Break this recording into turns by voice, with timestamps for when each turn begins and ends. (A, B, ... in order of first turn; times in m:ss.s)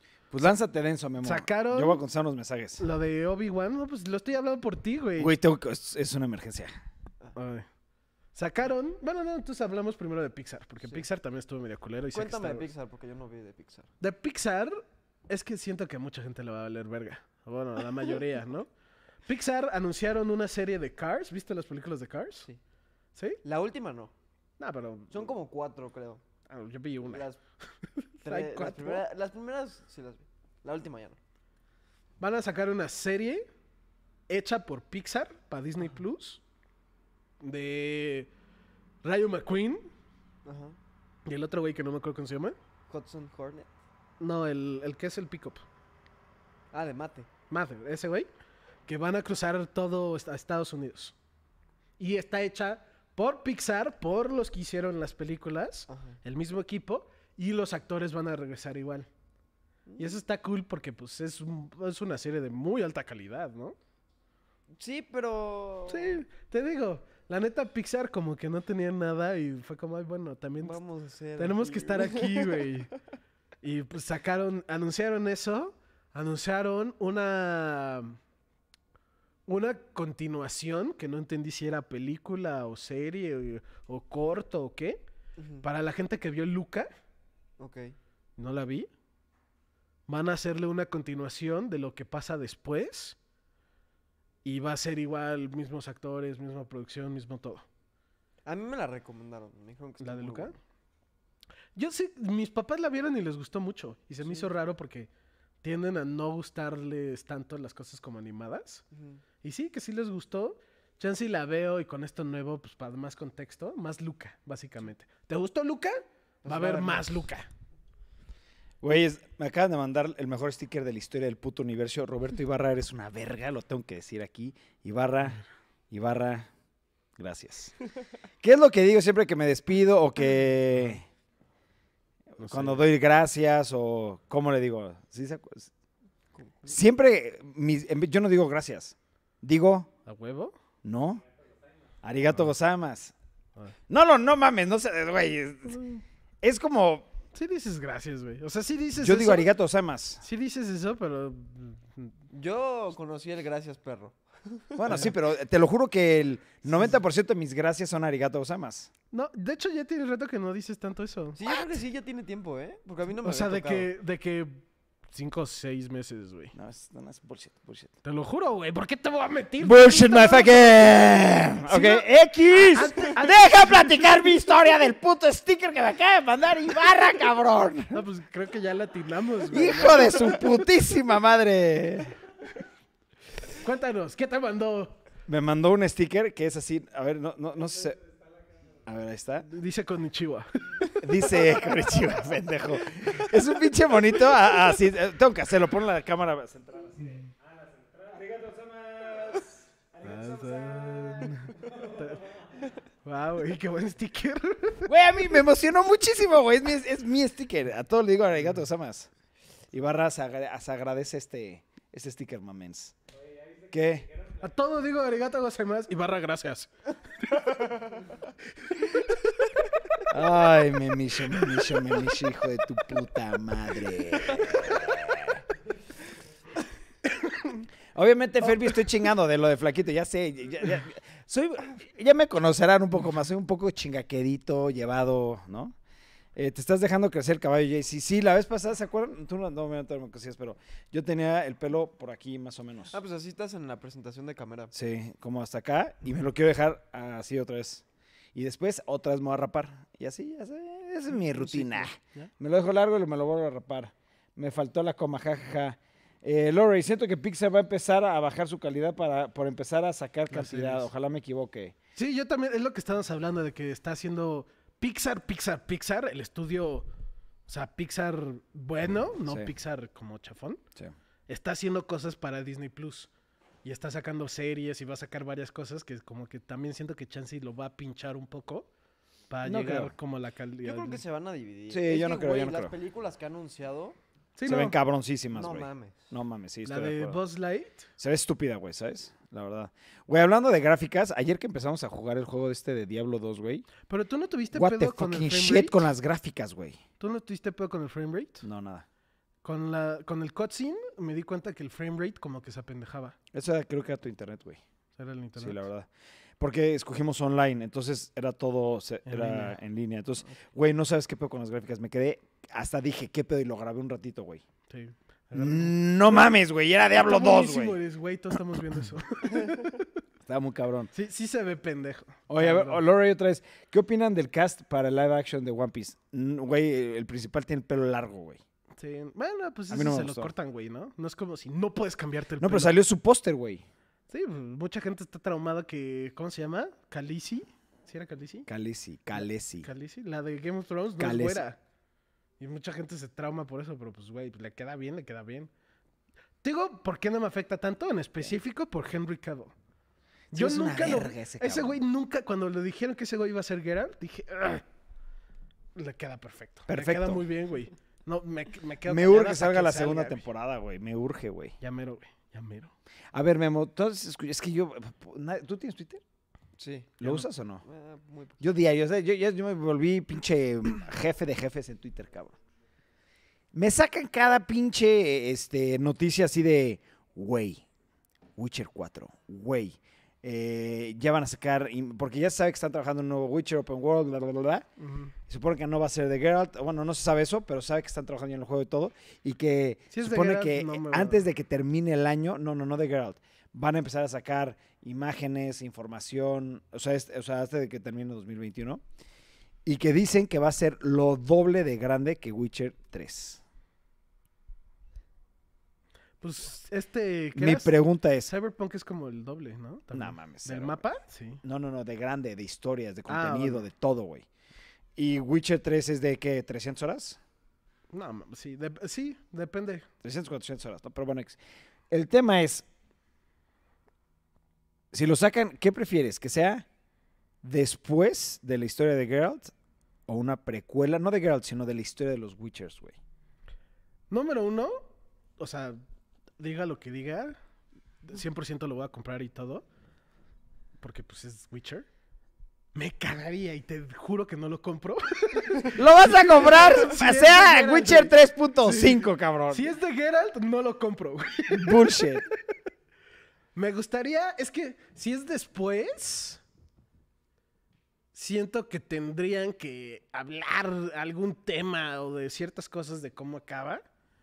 0:00.3-0:02.8 A
0:01.2-0:02.0 B
0:02.8-0:05.4 B
0:05.2-0:06.7 A
0:07.4-0:07.7 B
0:08.4-0:12.7 B
0:12.1-0:13.9 C
0:14.0-0:18.7 B
0:19.3-0:22.5 B
0:23.4-0:24.1 C
0:24.6-0:25.3 B
0:25.1-0:26.2 C
0:26.5-0:27.2 B
0:27.0-0:27.4 C
0:28.0-0:29.0 B
0:28.2-0:31.2 C
0:32.2-0:33.5 B
0:34.3-0:36.4 B
0:37.4-0:38.3 B
0:39.0-0:39.9 B
0:40.4-0:40.8 C
0:41.3-0:42.6 B
0:42.9-0:43.7 C
0:44.2-0:45.6 B
0:46.7-0:47.3 C
0:47.5-0:48.3 B
0:48.9-0:51.2 B
0:52.0-0:59.1 B
0:55.9-0:56.2 C
0:59.9-1:00.2 C
1:00.0-1:03.8 B
1:04.8-1:06.2 C
1:05.9-1:10.8 B
1:10.6-1:12.8 C
1:11.4-1:12.9 B
1:13.6-1:18.2 B
1:19.5-1:25.0 B
1:25.4-1:25.6 C
1:25.6-1:26.9 B
1:27.6-1:28.0 C
1:28.4-1:28.9 B
1:30.1-1:33.2 B
1:34.4-1:37.6 B
1:38.4-1:40.6 C
1:40.0-1:40.6 B
1:41.8-1:45.1 B
1:45.6-1:48.8 B
1:48.9-1:49.2 C
1:49.4-1:57.5 B
1:56.4-1:57.1 C
1:58.8-2:06.5 A
2:07.2-2:07.8 A
2:08.4-2:11.0 A
2:12.4-2:15.7 A
2:12.4-2:12.8 B
2:16.4-2:16.8 C
2:16.7-2:19.9 A
2:20.1-2:20.6 B
2:20.8-2:21.2 A
2:22.0-2:23.1 A
2:23.9-2:25.8 A
2:25.7-2:26.0 B
2:26.4-2:27.1 A
2:27.3-2:29.5 B
2:29.0-2:30.2 A
2:30.2-2:32.1 B
2:32.3-2:34.9 C
2:34.8-2:38.9 A
2:34.9-2:35.1 B
2:39.1-2:41.4 B
2:41.4-2:43.9 C
2:43.2-2:46.6 B
2:46.6-2:47.9 A
2:48.0-2:51.0 B
2:49.6-2:58.0 A
2:51.7-2:54.2 B
2:57.9-3:00.5 B
2:59.5-3:02.2 A
3:03.6-3:05.0 B
3:05.3-3:08.0 A
3:08.8-3:09.5 A
3:09.5-3:11.3 B
3:11.0-3:21.4 A
3:20.0-3:22.2 B
3:23.0-3:24.9 B
3:24.9-3:29.1 A
3:29.7-3:33.0 A
3:33.7-3:34.1 A
3:34.4-3:36.7 B
3:37.3-3:37.7 B
3:40.1-3:45.4 A
3:47.3-3:47.5 B
3:47.9-3:55.8 A
3:56.4-4:03.0 A
4:02.9-4:04.7 C
4:04.7-4:07.8 A
4:08.4-4:21.8 A
4:11.2-4:12.3 B
4:20.3-4:20.9 B
4:22.0-4:26.9 B
4:27.5-4:30.6 B
4:31.3-4:33.1 B
4:33.6-4:38.7 B
4:39.3-4:41.0 B
4:39.4-4:39.9 A
4:40.6-4:44.0 C
4:41.7-4:42.7 A
4:44.4-4:44.8 B
4:44.5-4:47.2 A
4:45.3-4:46.1 C
4:46.6-4:47.9 B
4:48.0-4:53.7 A
4:53.9-4:55.9 B
4:54.5-4:56.8 A
4:57.0-4:58.4 B
4:58.4-4:58.8 A
4:59.4-5:03.2 B
5:03.3-5:04.6 A
5:05.0-5:05.7 B
5:05.4-5:05.9 A
5:06.4-5:14.4 A
5:09.1-5:09.6 B
5:14.7-5:16.3 B
5:15.4-5:17.8 A
5:17.0-5:19.9 B
5:20.3-5:20.9 A
5:20.9-5:22.8 B
5:22.3-5:28.4 A
5:28.8-5:32.8 B
5:29.7-5:30.3 A
5:32.4-5:33.6 A
5:34.1-5:38.5 B
5:38.5-5:39.7 A
5:39.6-5:41.6 B
5:41.0-5:41.4 A
5:42.4-5:45.5 B
5:46.4-5:49.5 B
5:50.3-5:51.8 A
5:50.3-5:54.6 B
5:55.8-6:00.2 B
5:56.7-5:57.2 A
5:58.9-6:01.6 A
6:01.6-6:02.7 B
6:03.1-6:06.0 A
6:06.6-6:07.0 C
6:07.0-6:07.6 A
6:07.6-6:08.4 C
6:08.4-6:12.4 A
6:13.5-6:17.6 A
6:18.4-6:24.7 A
6:24.8-6:25.1 B
6:25.3-6:38.8 A
6:29.9-6:31.2 B
6:39.6-6:43.4 A
6:46.2-6:51.4 B
6:47.4-6:48.3 A
6:49.9-6:50.8 A
6:51.4-6:54.3 A
6:53.1-6:53.7 B
6:55.0-6:57.2 A
6:57.9-6:59.9 B
7:00.0-7:01.4 A
7:01.9-7:02.7 A
7:04.9-7:06.7 A
7:07.4-7:09.5 A
7:10.1-7:13.0 A
7:14.1-7:14.9 B
7:15.4-7:15.8 B
7:16.4-7:17.4 B
7:18.0-7:19.6 B
7:20.8-7:21.9 B
7:22.8-7:32.2 B
7:25.7-7:29.7 A
7:31.5-7:32.2 A
7:33.6-7:36.4 B
7:38.1-7:43.8 B